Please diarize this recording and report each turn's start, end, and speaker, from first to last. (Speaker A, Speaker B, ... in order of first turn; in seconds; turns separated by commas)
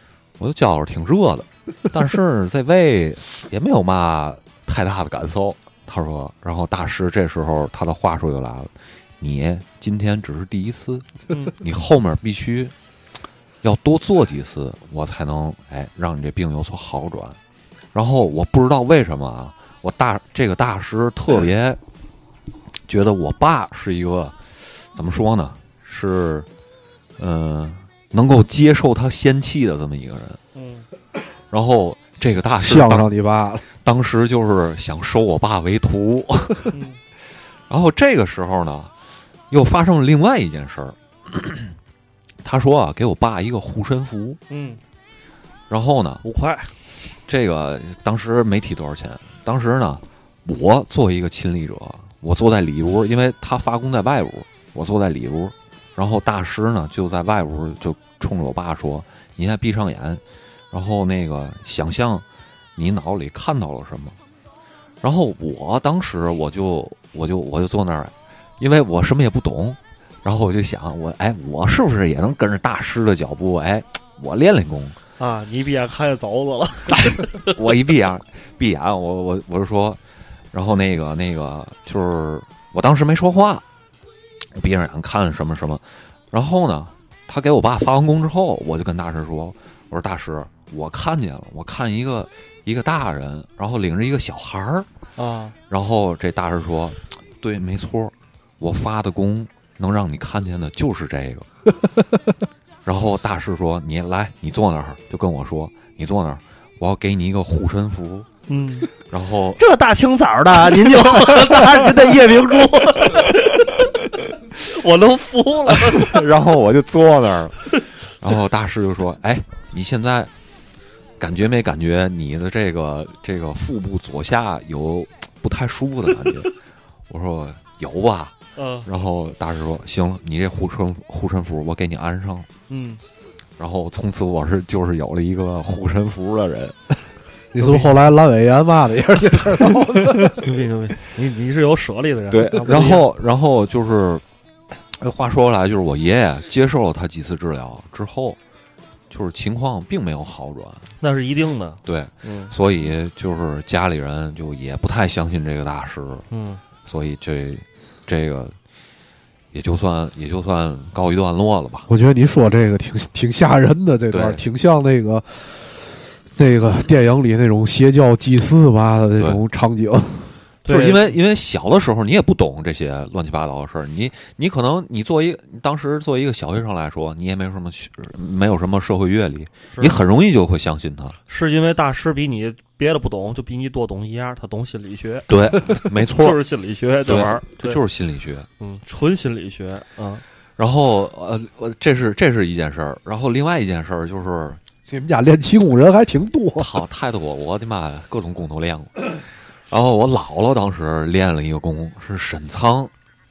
Speaker A: 0.4-12.7, Speaker B: 11.3-11.6, Speaker A: 13.6-17.4, Speaker A: 17.9-21.8, Speaker A: 22.9-26.5, Speaker A: 27.2-30.4, Speaker B: 30.5-30.9, Speaker A: 31.5-33.1, Speaker C: 32.6-33.6, Speaker A: 33.8-36.7, Speaker B: 36.7-37.0, Speaker A: 37.7-38.9, Speaker A: 39.5-41.7, Speaker A: 42.4-44.4, Speaker B: 44.5-44.8, Speaker A: 45.7-46.2, Speaker B: 46.2-46.7, Speaker A: 47.3-62.2, Speaker A: 62.8-64.2, Speaker A: 65.0-75.0, Speaker B: 75.2-77.5, Speaker A: 77.1-80.0, Speaker A: 80.5-83.6, Speaker A: 84.6-94.9, Speaker B: 95.2-95.6, Speaker A: 95.7-101.5, Speaker A: 102.8-108.3, Speaker B: 108.5-108.9, Speaker A: 109.0-109.6, Speaker B: 109.6-113.9, Speaker B: 114.5-116.2, Speaker A: 115.8-120.3, Speaker A: 121.2-126.5, Speaker A: 127.1-132.5, Speaker B: 128.6-128.9, Speaker B: 132.7-133.0, Speaker A: 133.6-137.1, Speaker C: 137.5-140.4, Speaker B: 137.6-137.9, Speaker B: 140.4-143.1, Speaker A: 142.3-144.2, Speaker A: 144.9-148.4, Speaker A: 149.1-150.9, Speaker B: 151.0-152.6, Speaker A: 151.8-156.3, Speaker B: 156.3-156.6, Speaker A: 156.8-158.6, Speaker A: 159.5-161.9, Speaker C: 161.9-170.4, Speaker A: 164.1-164.4, Speaker B: 170.7-171.2, Speaker A: 170.7-181.2, Speaker B: 179.7-180.0, Speaker B: 181.3-187.8, Speaker A: 185.3-186.4, Speaker A: 187.1-188.5, Speaker B: 188.6-190.2, Speaker A: 190.6-194.6, Speaker C: 194.9-196.7, Speaker A: 196.6-202.9